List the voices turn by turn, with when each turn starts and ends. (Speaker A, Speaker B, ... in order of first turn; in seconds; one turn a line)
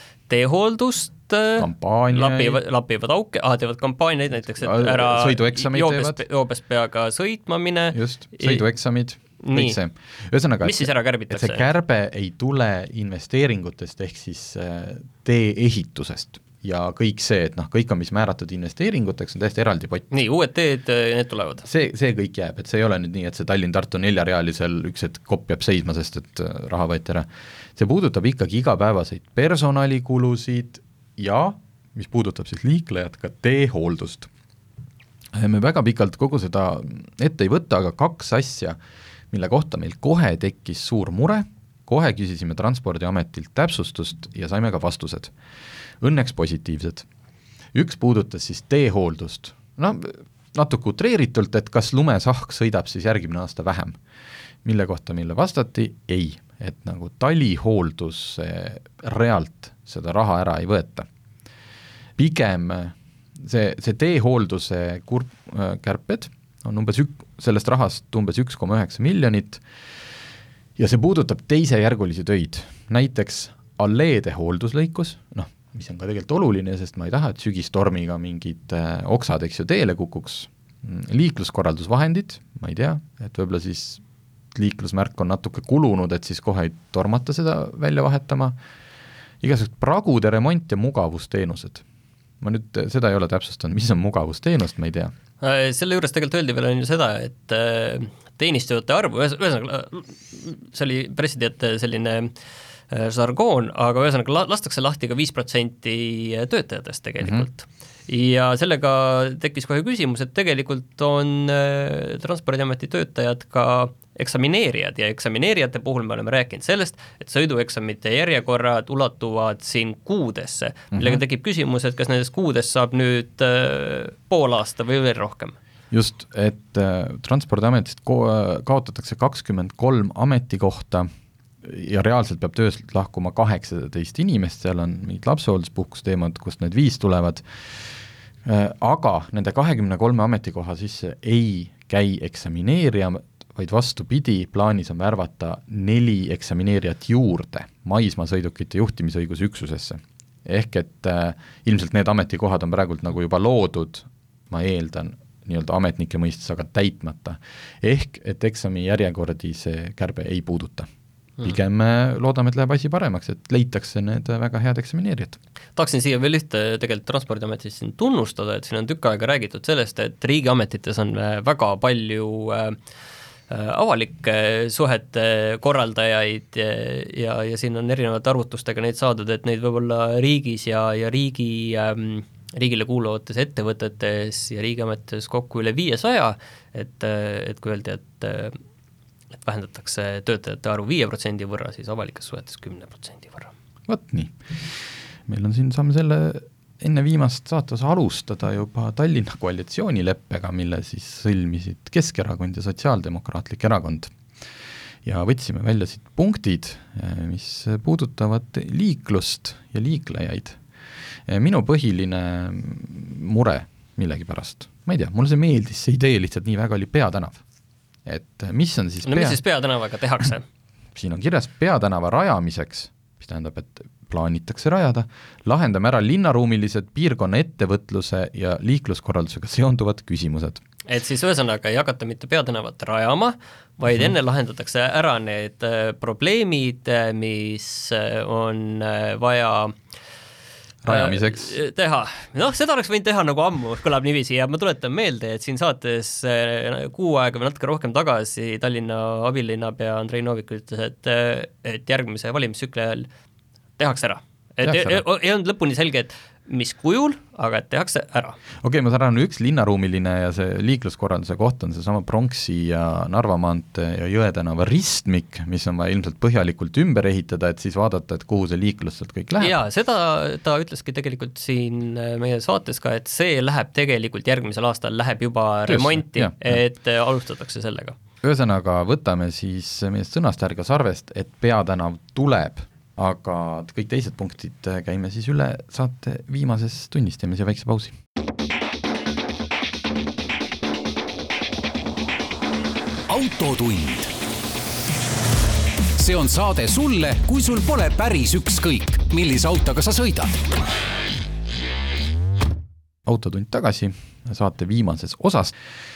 Speaker A: 0.3-8.6
Speaker B: 1.6-2.6
Speaker B: 4.6-6.2
Speaker B: 7.9-20.1
Speaker A: 9.4-9.8
Speaker A: 10.6-11.7
Speaker A: 20.1-21.6
Speaker B: 21.6-34.3
Speaker B: 35.4-38.8
Speaker B: 39.3-45.3
Speaker B: 46.0-47.0
Speaker B: 47.7-54.0
Speaker B: 54.6-61.1
Speaker B: 62.2-69.6
Speaker B: 70.8-84.0
Speaker B: 84.5-88.6
Speaker B: 89.4-91.8
Speaker B: 92.4-95.1
Speaker A: 95.4-102.3
Speaker A: 102.9-125.6
Speaker B: 107.2-107.5
Speaker B: 120.9-121.2
Speaker B: 125.9-131.1
Speaker B: 131.6-160.9
Speaker B: 161.4-165.4
Speaker A: 165.8-172.8
Speaker A: 173.5-188.6
Speaker A: 189.3-193.5
Speaker B: 193.9-204.2
Speaker B: 205.1-210.6
Speaker B: 211.3-217.4
Speaker B: 218.1-219.4
Speaker A: 219.0-220.4
Speaker B: 220.9-230.6
Speaker A: 230.9-239.8
Speaker B: 240.8-241.6
Speaker A: 240.9-253.1
Speaker A: 253.8-258.4
Speaker B: 254.6-255.0
Speaker B: 258.6-269.6
Speaker A: 269.4-278.0
Speaker B: 275.7-276.6
Speaker B: 278.2-288.0
Speaker C: 293.1-294.1
Speaker C: 296.0-300.4
Speaker B: 303.1-305.6